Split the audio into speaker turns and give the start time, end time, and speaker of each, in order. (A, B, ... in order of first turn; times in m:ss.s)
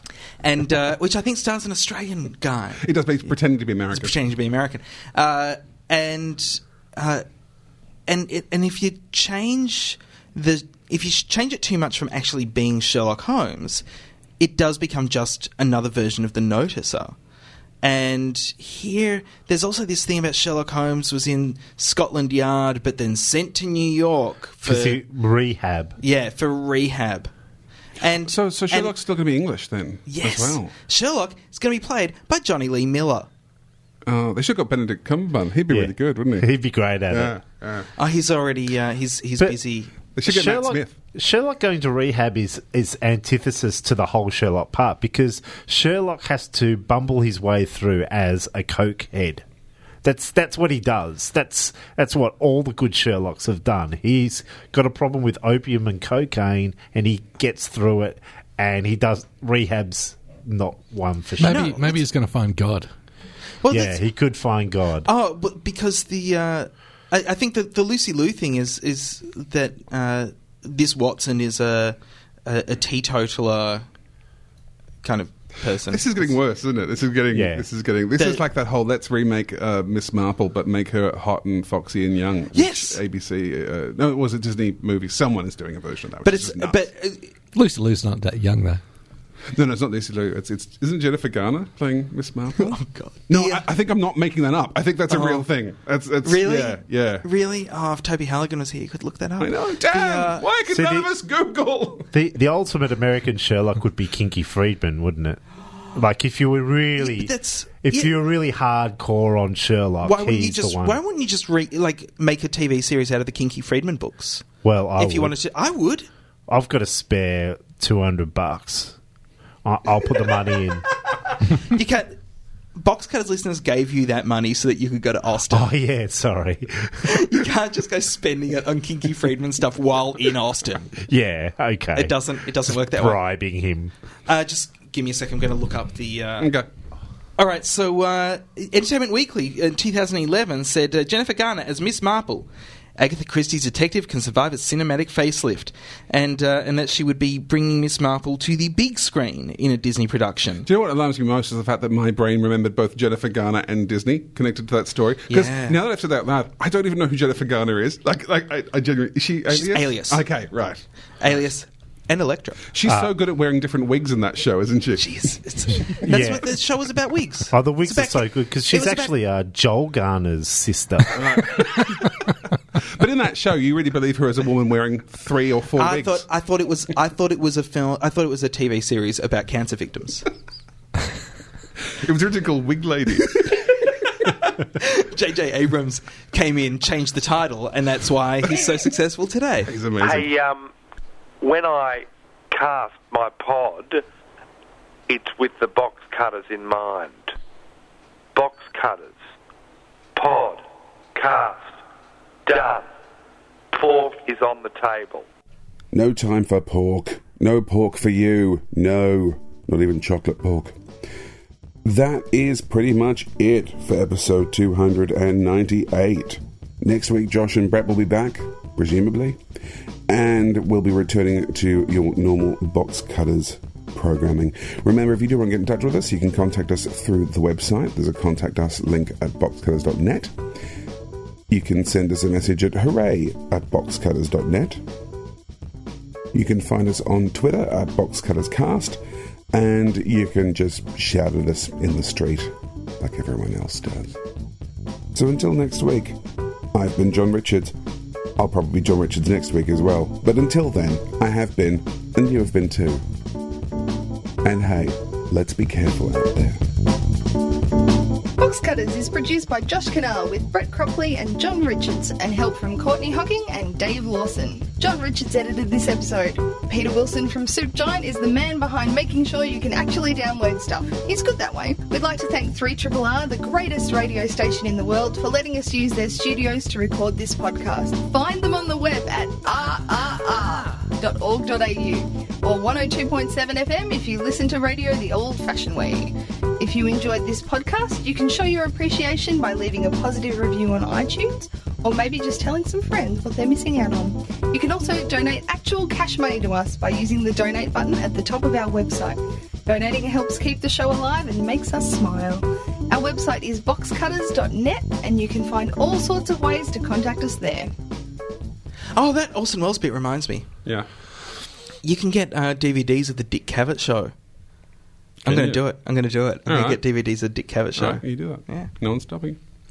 0:00.4-0:03.3 A
0:02.8-0:04.2 B
0:03.9-0:07.2 A
0:08.1-0:13.8 A
0:14.4-0:17.2 A
0:17.8-0:25.0 A
0:24.6-0:26.0 C
0:26.0-0:27.3 A
0:28.0-0:28.9 A
0:28.2-0:30.7 B
0:30.0-0:33.3 A
0:34.0-0:36.5 B
0:35.7-0:37.4 C
0:37.1-0:37.9 B
0:38.0-0:39.9 A
0:40.1-0:40.9 B
0:40.2-0:49.4 C
0:50.0-1:01.8 C
1:01.4-1:02.9 D
1:01.4-1:02.0 A
1:03.6-1:04.0 A
1:03.7-1:05.1 C
1:05.0-1:13.8 A
1:15.0-1:16.4 A
1:15.9-1:26.8 B
1:17.3-1:17.6 C
1:18.2-1:18.4 A
1:22.5-1:23.0 A
1:26.2-1:27.3 A
1:27.5-1:28.8 D
1:29.5-1:37.2 B
1:32.6-1:33.6 A
1:35.1-1:35.5 A
1:36.2-1:40.4 A
1:39.4-1:42.0 B
1:40.7-1:41.1 C
1:42.1-1:45.4 C
1:45.9-1:47.3 C
1:47.0-1:48.1 A
1:47.8-1:51.0 C
1:50.0-1:54.4 A
1:54.6-1:55.4 C
1:55.0-1:56.1 A
1:56.5-1:59.0 C
1:59.6-2:00.9 C
2:01.7-2:02.2 A
2:02.7-2:05.7 A
2:05.5-2:07.2 C
2:07.1-2:10.9 A
2:11.0-2:13.9 C
2:11.9-2:13.2 A
2:14.3-2:16.5 A
2:16.4-2:16.7 B
2:17.4-2:30.7 A
2:30.6-2:41.5 B
2:35.3-2:35.8 A
2:39.5-2:40.4 A
2:41.2-2:42.6 A
2:42.7-2:45.2 B
2:45.0-2:49.1 A
2:46.0-2:46.4 C
2:47.5-2:51.2 C
2:51.1-2:52.2 B
2:52.9-2:56.2 B
2:55.8-3:00.2 A
3:02.0-3:03.6 B
3:04.8-3:09.7 A
3:09.7-3:10.3 B
3:10.0-3:10.7 E
3:11.4-3:14.0 E
3:15.1-3:17.3 E
3:18.3-3:19.2 E
3:20.2-3:20.6 E
3:21.1-3:21.8 E
3:22.5-3:22.8 E
3:23.7-3:25.2 E
3:25.9-3:30.8 F
3:31.8-3:39.4 F
3:40.1-3:50.3 F
3:51.5-3:54.8 F
3:56.3-4:04.2 F
4:05.1-4:06.2 F
4:06.7-4:07.8 F
4:08.4-4:13.0 F
4:14.4-4:16.6 F
4:18.4-5:07.7 G
5:08.9-5:10.5 A
5:11.8-5:14.1 A
5:15.2-5:15.6 B
5:15.3-5:18.7 A
5:16.4-5:16.8 B
5:17.8-5:19.4 B